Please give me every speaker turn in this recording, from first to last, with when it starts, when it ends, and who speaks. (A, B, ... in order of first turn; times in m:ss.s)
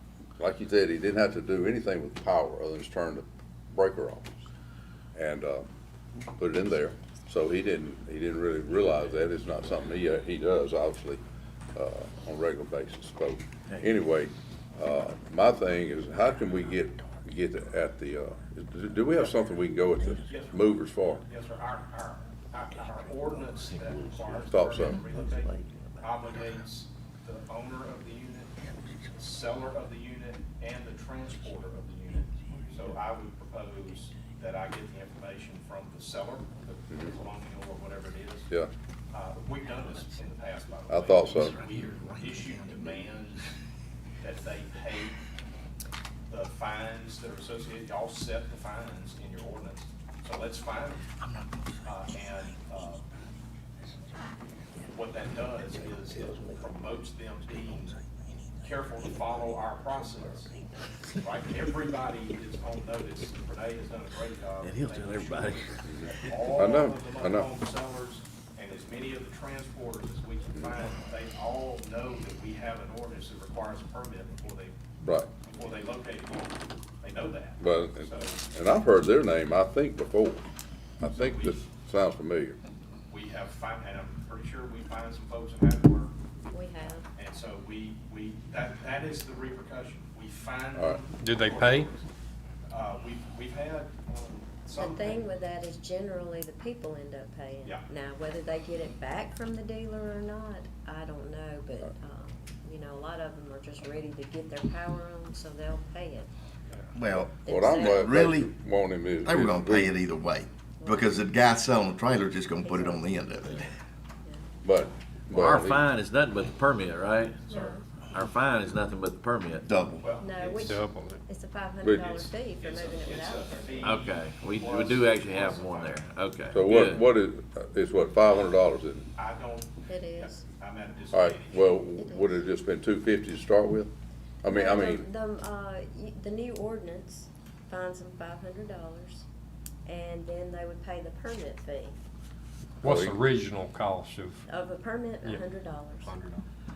0:00.4-0:04.3 A
0:05.1-0:05.6 A
0:06.4-0:11.2 A
0:11.7-0:21.2 A
0:20.2-0:28.5 B
0:24.5-0:25.0 A
0:29.2-0:38.5 B
0:39.1-0:43.5 B
0:40.9-0:41.6 A
0:41.4-0:42.9 C
0:44.2-0:45.2 B
0:46.3-0:51.1 B
0:51.2-0:51.9 C
0:51.8-0:53.0 B
0:54.9-0:58.0 B
0:58.6-1:00.5 B
1:01.2-1:14.7 B
1:04.6-1:06.4 D
1:05.9-1:07.5 A
1:15.0-1:15.3 A
1:15.4-1:18.4 B
1:17.6-1:20.4 A
1:21.0-1:22.6 A
1:21.1-1:21.6 B
1:23.1-1:26.2 B
1:26.5-1:27.0 E
1:27.0-1:32.0 B
1:30.8-1:31.0 A
1:31.2-1:31.9 F
1:32.7-1:35.2 B
1:34.8-1:46.3 E
1:46.9-1:48.6 C
1:47.4-1:49.9 A
1:47.4-1:48.2 E
1:49.2-1:53.7 C
1:50.8-1:51.2 E
1:52.4-1:53.7 E
1:54.6-1:55.9 A
1:55.3-1:57.4 D
1:57.5-1:57.8 E
1:58.1-1:59.7 D
1:59.6-2:00.1 C
2:00.0-2:00.8 B
2:00.2-2:03.9 E
2:00.6-2:01.2 F
2:01.8-2:02.1 A
2:02.0-2:06.0 B
2:03.8-2:07.0 D
2:06.5-2:09.1 A
2:09.2-2:11.7 B
2:09.9-2:10.4 E
2:11.1-2:13.9 A
2:12.0-2:12.4 E
2:14.4-2:15.0 A
2:14.5-2:19.3 E
2:19.8-2:22.0 E
2:22.8-2:24.4 F
2:22.8-2:23.2 A
2:24.5-2:26.1 E
2:26.0-2:26.4 F